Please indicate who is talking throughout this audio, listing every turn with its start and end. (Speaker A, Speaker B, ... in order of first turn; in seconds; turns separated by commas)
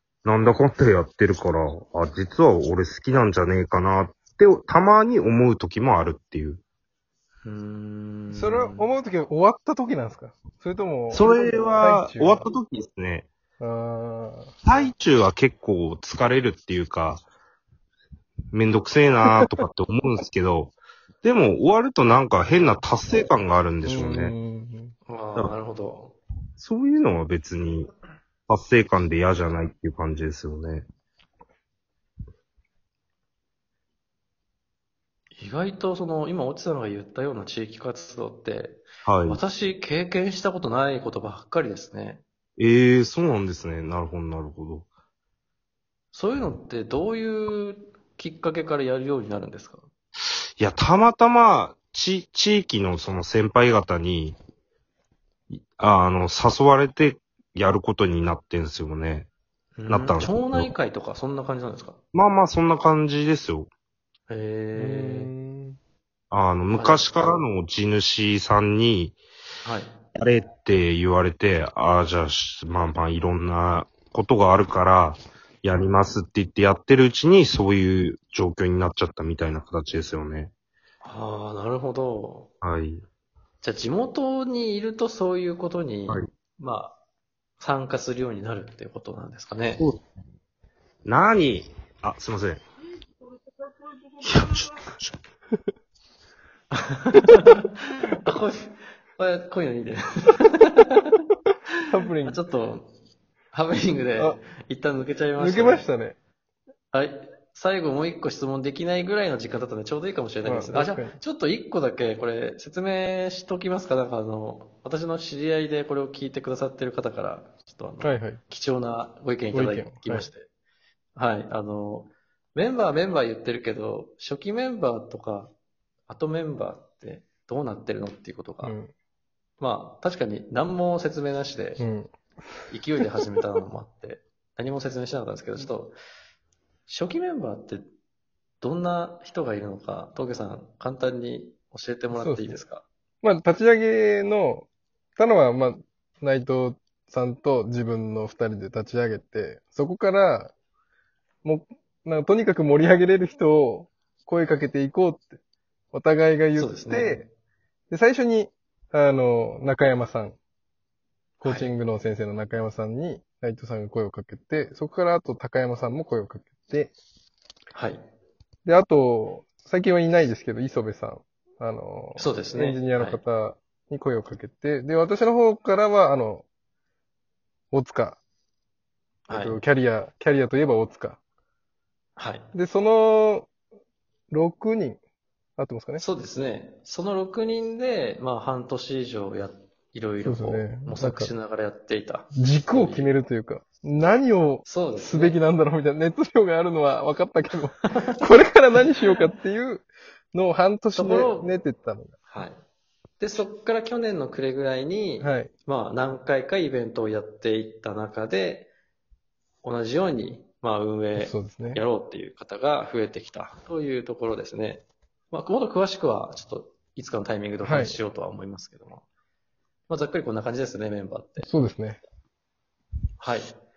Speaker A: 0.2-6.6, Speaker B: 7.4-8.8, Speaker C: 8.3-12.4, Speaker A: 11.1-13.3, Speaker C: 13.6-14.9, Speaker A: 14.6-17.2, Speaker A: 18.5-24.4, Speaker C: 23.8-24.9, Speaker B: 25.1-26.1, Speaker A: 26.6-27.9, Speaker A: 28.5-30.8, Speaker B: 35.4-42.2, Speaker A: 39.0-39.4, Speaker A: 42.6-44.8, Speaker B: 46.1-49.9, Speaker A: 50.6-54.4, Speaker A: 55.5-59.3, Speaker B: 59.8-62.0, Speaker A: 59.9-60.7, Speaker A: 62.1-63.7, Speaker B: 64.3-65.3, Speaker C: 64.7-65.8, Speaker A: 66.3-69.2, Speaker B: 66.7-67.1, Speaker B: 69.6-69.9, Speaker A: 70.2-80.5, Speaker B: 81.0-82.5, Speaker A: 82.6-83.0, Speaker B: 83.6-87.0, Speaker B: 87.6-89.8, Speaker A: 89.8-90.0, Speaker A: 91.0-92.6, Speaker A: 94.2-95.1, Speaker B: 96.7-101.1, Speaker C: 101.9-102.4, Speaker B: 102.2-102.9, Speaker B: 103.5-105.8, Speaker C: 105.4-106.2, Speaker B: 106.9-120.5, Speaker C: 110.4-111.2, Speaker C: 118.0-118.4, Speaker C: 119.5-120.3, Speaker B: 121.1-125.5, Speaker B: 126.1-128.7, Speaker C: 128.6-128.9, Speaker B: 129.6-131.8, Speaker C: 131.8-132.7, Speaker B: 132.7-135.9, Speaker B: 136.9-137.9, Speaker B: 138.6-142.8, Speaker C: 142.1-142.6, Speaker C: 143.2-150.5, Speaker C: 151.4-155.4, Speaker C: 155.9-157.2, Speaker B: 156.5-157.2, Speaker C: 157.9-160.4, Speaker C: 161.4-166.9, Speaker B: 161.4-161.7, Speaker B: 167.7-168.0, Speaker C: 168.6-176.4, Speaker B: 172.2-173.2, Speaker C: 177.7-178.2, Speaker B: 179.3-179.6, Speaker C: 179.3-181.2, Speaker B: 182.2-182.5, Speaker C: 182.5-183.5, Speaker C: 184.3-185.0, Speaker C: 185.6-186.0, Speaker B: 186.0-193.1, Speaker C: 190.2-191.3, Speaker C: 192.3-202.2, Speaker B: 194.6-195.4, Speaker B: 200.9-201.5, Speaker B: 202.3-202.6, Speaker B: 203.2-208.7, Speaker C: 205.2-205.5, Speaker B: 209.6-219.0, Speaker C: 211.2-211.8, Speaker C: 217.6-218.0, Speaker B: 219.9-221.5, Speaker C: 221.4-222.0, Speaker B: 223.2-223.6